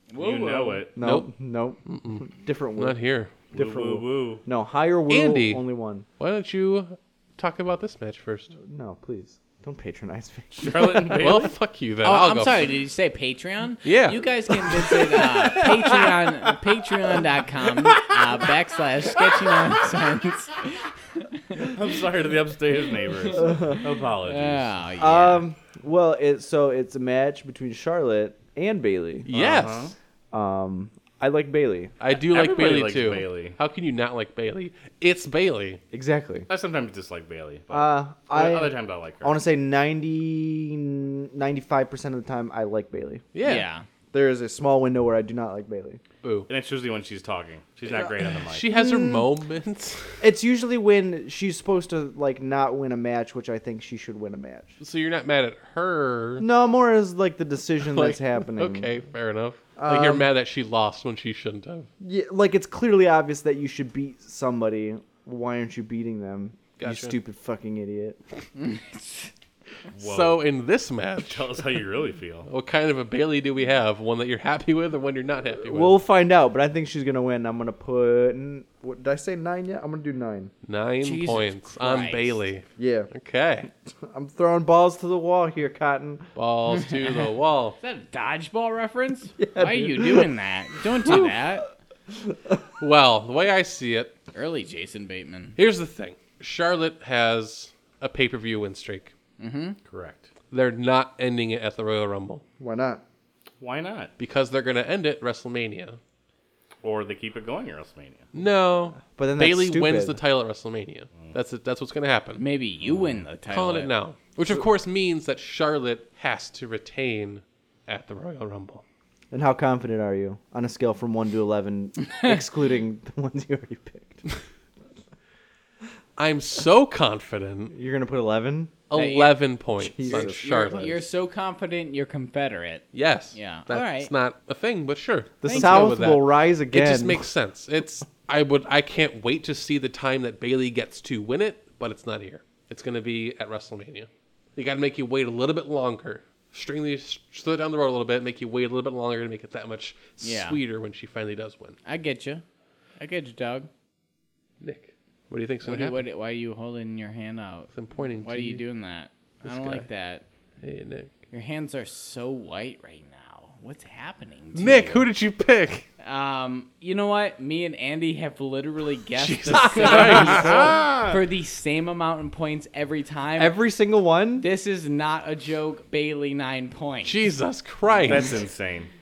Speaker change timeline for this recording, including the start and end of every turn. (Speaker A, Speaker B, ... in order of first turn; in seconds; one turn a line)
Speaker A: 0.1-0.8
Speaker B: 0.2-0.9
Speaker C: 0.9-3.0
Speaker D: 1.0-1.3
Speaker D: 1.9-3.3
Speaker C: 3.5-6.0
Speaker B: 3.5-4.4
Speaker D: 5.1-5.6
Speaker D: 6.2-8.5
Speaker C: 8.6-11.3
Speaker B: 10.5-11.5
Speaker D: 11.2-12.7
Speaker A: 12.0-21.6
Speaker D: 13.8-16.1
Speaker B: 21.6-24.7
Speaker C: 23.4-23.8
Speaker A: 24.2-25.4
Speaker C: 25.0-29.6
Speaker D: 29.2-29.9
Speaker B: 29.3-29.9
Speaker C: 30.3-31.9
Speaker D: 32.0-35.8
Speaker B: 32.1-33.6
Speaker C: 35.9-36.5
Speaker B: 36.5-39.4
Speaker C: 37.7-43.2
Speaker D: 43.3-43.6
Speaker A: 43.4-43.8
Speaker C: 44.1-46.0
Speaker D: 46.2-46.5
Speaker B: 46.5-48.7
Speaker D: 48.5-50.2
Speaker C: 48.7-49.2
Speaker C: 50.2-54.8
Speaker D: 54.8-56.5
Speaker C: 56.4-58.9
Speaker D: 57.8-61.9
Speaker C: 59.8-60.3
Speaker C: 62.0-68.2
Speaker D: 66.8-67.2
Speaker A: 68.5-69.3
Speaker B: 69.9-70.4
Speaker D: 70.0-71.6
Speaker B: 71.2-72.5
Speaker D: 72.5-76.0
Speaker C: 75.7-80.5
Speaker D: 80.7-83.7
Speaker A: 81.0-82.4
Speaker C: 82.8-83.1
Speaker C: 83.9-86.3
Speaker D: 86.3-87.8
Speaker A: 87.8-91.7
Speaker C: 89.4-90.3
Speaker C: 91.0-91.3
Speaker D: 92.8-94.1
Speaker A: 94.3-95.6
Speaker D: 95.6-99.1
Speaker A: 99.4-99.8
Speaker B: 99.9-100.3
Speaker D: 100.5-102.4
Speaker C: 102.6-103.0
Speaker B: 103.6-104.1
Speaker D: 104.2-106.0
Speaker B: 106.8-108.3
Speaker D: 108.3-112.4
Speaker C: 109.2-110.2
Speaker A: 112.4-113.9
Speaker D: 113.5-118.8
Speaker C: 119.3-124.3
Speaker D: 126.2-127.7
Speaker C: 127.7-128.8
Speaker D: 128.9-131.0
Speaker A: 128.9-129.3
Speaker C: 129.8-130.5
Speaker A: 130.1-134.1
Speaker D: 132.9-151.8
Speaker C: 135.4-137.3
Speaker A: 135.4-136.0
Speaker A: 150.2-150.6
Speaker A: 151.8-152.4
Speaker A: 153.0-153.7
Speaker D: 154.6-156.0
Speaker A: 155.6-160.2
Speaker D: 157.7-158.6
Speaker D: 159.4-159.8
Speaker D: 160.6-161.1
Speaker A: 161.3-165.1
Speaker D: 164.5-165.9
Speaker A: 166.0-173.6
Speaker D: 169.2-170.8
Speaker B: 169.8-171.2
Speaker C: 173.4-174.4
Speaker A: 174.4-177.2
Speaker D: 177.0-178.4
Speaker B: 178.0-178.9